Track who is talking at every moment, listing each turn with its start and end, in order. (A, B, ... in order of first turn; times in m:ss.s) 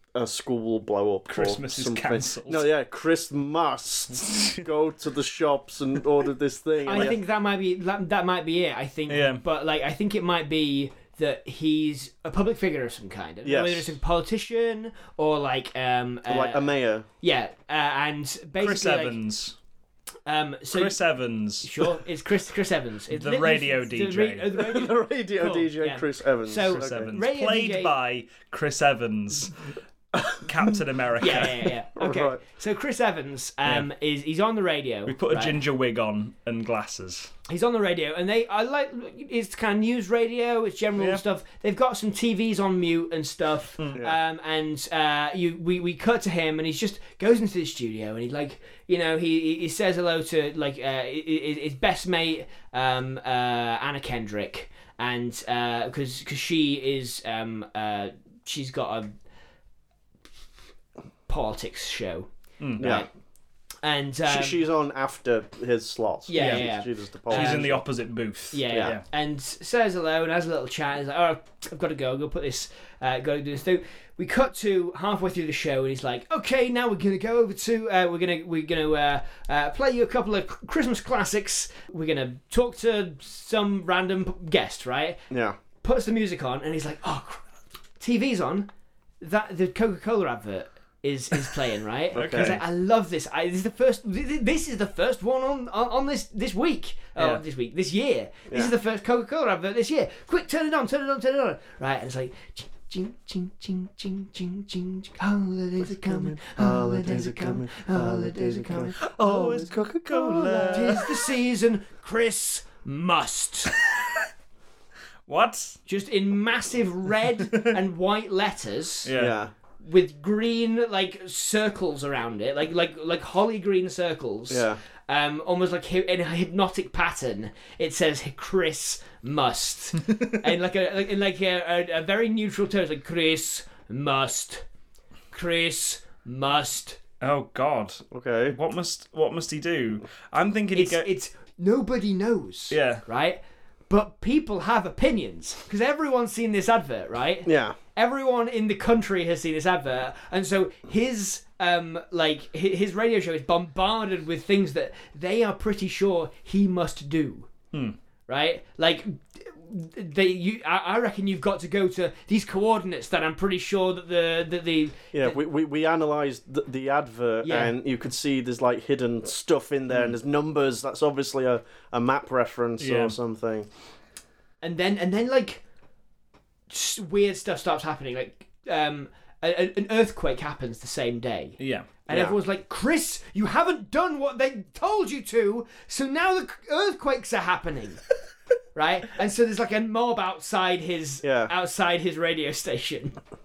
0:00.2-0:07.2 A
0:01.3-0:02.7 B
0:04.3-0:04.6 B
0:06.8-0:16.7 C
0:09.1-0:09.4 B
0:13.4-0:13.9 A
0:16.3-0:17.0 A
0:17.2-0:19.2 C
0:18.6-0:19.6 B
0:20.3-0:21.0 C
0:20.7-0:22.0 B
0:21.6-0:27.9 C
0:23.1-0:24.5 B
0:24.5-0:27.1 A
0:26.6-0:29.6 B
0:30.1-0:30.7 A
0:30.4-0:31.7 B
0:31.2-0:35.6 C
0:32.0-0:32.4 A
0:35.1-0:37.3 B
0:37.5-0:59.1 C
0:43.8-0:44.0 B
1:01.3-1:03.1 C
1:02.6-1:02.9 B
1:02.8-1:03.1 A
1:03.8-1:04.6 C
1:04.3-1:07.8 A
1:06.3-1:07.8 C
1:06.4-1:06.6 B
1:07.3-1:09.0 B
1:08.5-1:25.2 C
1:25.3-1:25.6 A
1:25.8-1:27.5 C
1:28.0-1:28.7 C
1:29.2-1:49.6 C
1:32.1-1:32.6 A
1:37.2-1:37.4 B
1:46.0-1:51.2 A
1:49.0-1:51.1 B
1:50.7-1:53.7 C
1:55.3-1:55.8 B
1:55.9-1:59.1 C
1:59.0-1:59.4 B
1:59.2-1:59.5 A
1:59.8-2:14.6 C
2:04.5-2:04.8 A
2:15.3-2:17.0 C
2:17.2-2:21.1 B
2:18.1-2:18.6 A
2:20.8-2:37.5 C
2:22.7-2:23.0 B
2:27.4-2:27.8 A
2:38.3-2:45.4 C
2:45.1-2:53.7 A
2:47.4-2:47.8 C
2:52.8-2:53.2 B
2:54.6-2:55.6 C
2:56.7-3:08.0 C
3:01.6-3:01.9 B
3:02.1-3:02.4 A
3:08.8-3:13.2 C
3:11.2-3:11.5 A